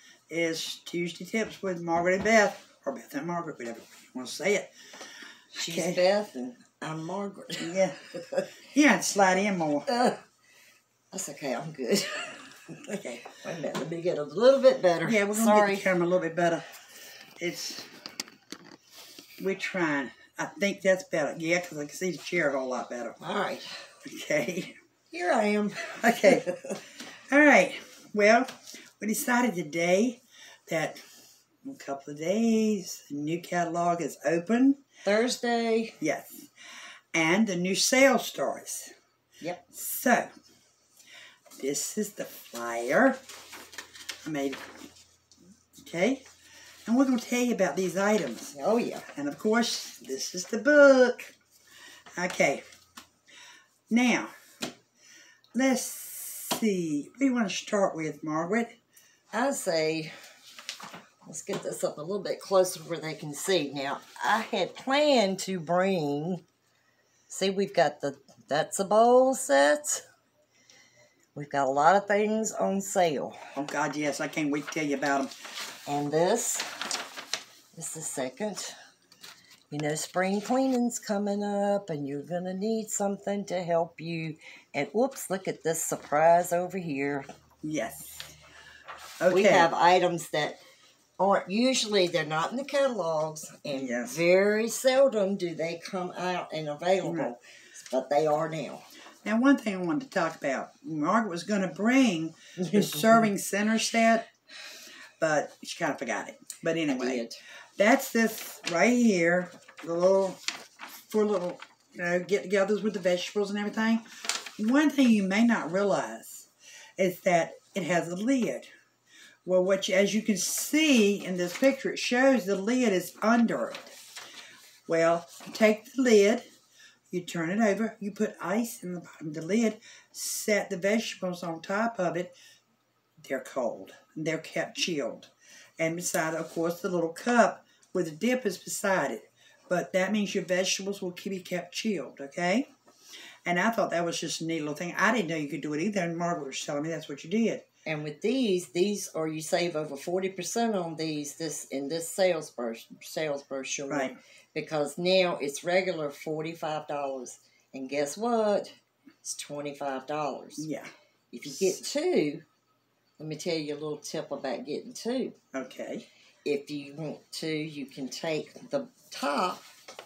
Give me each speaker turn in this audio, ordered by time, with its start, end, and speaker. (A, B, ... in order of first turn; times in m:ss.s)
0:00.3-0:04.7 A
0:05.5-0:06.0 A
0:05.5-0:08.5 B
0:07.6-0:08.0 A
0:08.5-0:09.9 A
0:09.9-0:10.2 B
0:11.1-0:15.8 B
0:13.0-0:13.2 A
0:15.0-0:16.7 A
0:17.4-0:18.0 A
0:19.4-0:23.2 A
0:23.2-0:23.8 B
0:24.0-0:24.8 A
0:25.1-0:26.8 B
0:26.0-0:26.4 A
0:27.3-0:34.8 A
0:35.0-0:36.0 B
0:36.0-0:36.5 A
0:37.1-0:38.9 A
0:39.7-0:40.3 A
0:41.6-0:43.2 A
0:44.2-0:44.9 A
0:45.8-0:46.2 A
0:46.8-0:48.6 A
0:48.5-0:49.0 B
0:49.1-0:51.3 A
0:52.2-0:52.6 A
0:53.9-0:54.3 A
0:55.5-0:58.8 A
0:59.3-1:00.1 B
1:01.2-1:06.4 B
1:07.3-1:10.0 B
1:11.3-1:13.4 B
1:13.5-1:15.3 A
1:15.8-1:16.8 B
1:17.7-1:18.8 B
1:19.7-1:27.3 B
1:27.6-1:28.3 A
1:29.2-1:29.7 A
1:29.3-1:30.6 B
1:31.2-1:38.8 B
1:33.7-1:34.2 A
1:37.0-1:37.3 A
1:39.2-1:44.3 A
1:42.6-1:43.1 B
1:45.2-1:47.2 A
1:46.9-1:47.4 B
1:47.8-1:50.4 A
1:51.1-1:58.7 A
1:59.4-2:04.0 A
2:04.9-2:06.5 A
2:07.1-2:12.3 A
2:13.2-2:22.7 A
2:23.4-2:27.6 A
2:27.8-2:38.7 B
2:33.9-2:34.2 A
2:39.2-2:40.7 B
2:40.6-2:40.9 A
2:41.3-2:42.4 B
2:41.5-2:41.8 A
2:43.2-2:45.4 B
2:45.5-2:46.0 A
2:46.4-2:49.7 B